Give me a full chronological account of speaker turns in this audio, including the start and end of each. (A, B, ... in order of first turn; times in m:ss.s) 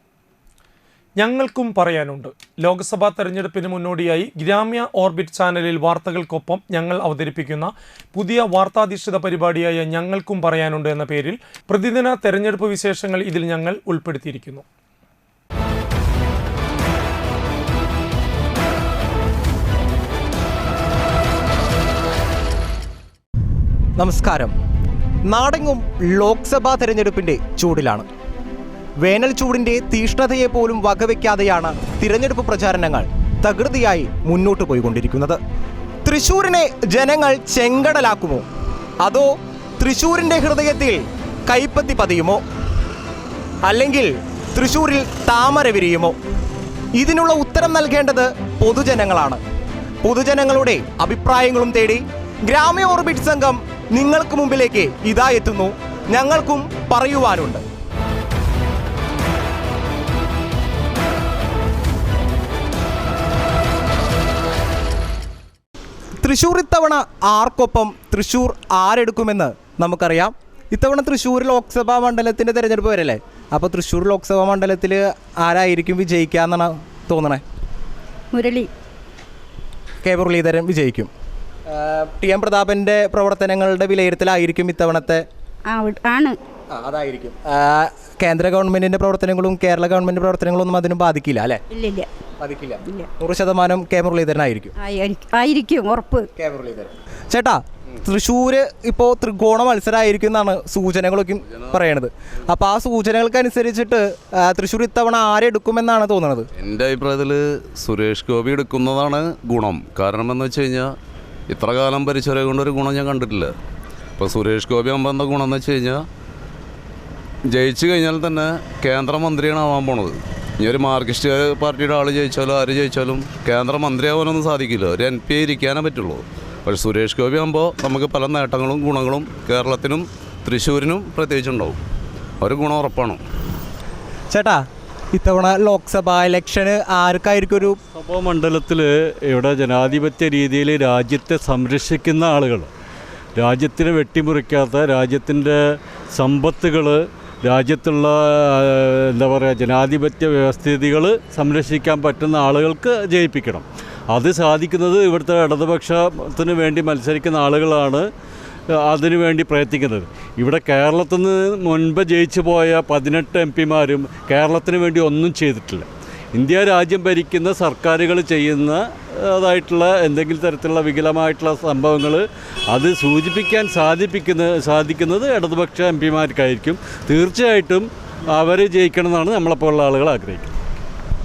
0:01.2-0:14.6 A
0:24.0-0:24.5 B
0:25.2-0:28.0 B
0:29.0-0:35.4 B
0:36.0-0:38.4 B
0:39.0-0:42.4 B
0:43.6-0:46.2 B
0:46.9-0:49.4 B
0:50.0-0:57.6 B
1:06.2-1:17.4 B
1:18.3-1:18.7 C
1:20.0-1:21.1 B
1:21.7-1:25.2 B
1:25.6-1:26.4 C
1:26.7-1:31.6 B
1:31.7-1:32.1 C
1:32.4-1:34.7 B
1:34.8-1:36.3 C
1:36.4-1:46.5 B
1:46.6-1:50.9 D
1:51.5-1:53.5 D
1:54.2-1:56.0 D
1:57.5-2:11.8 D
2:12.4-2:13.2 D
2:14.3-2:17.8 B
2:17.9-2:22.7 E
2:23.4-2:25.6 E
2:26.1-2:38.1 E
2:38.8-3:00.5 E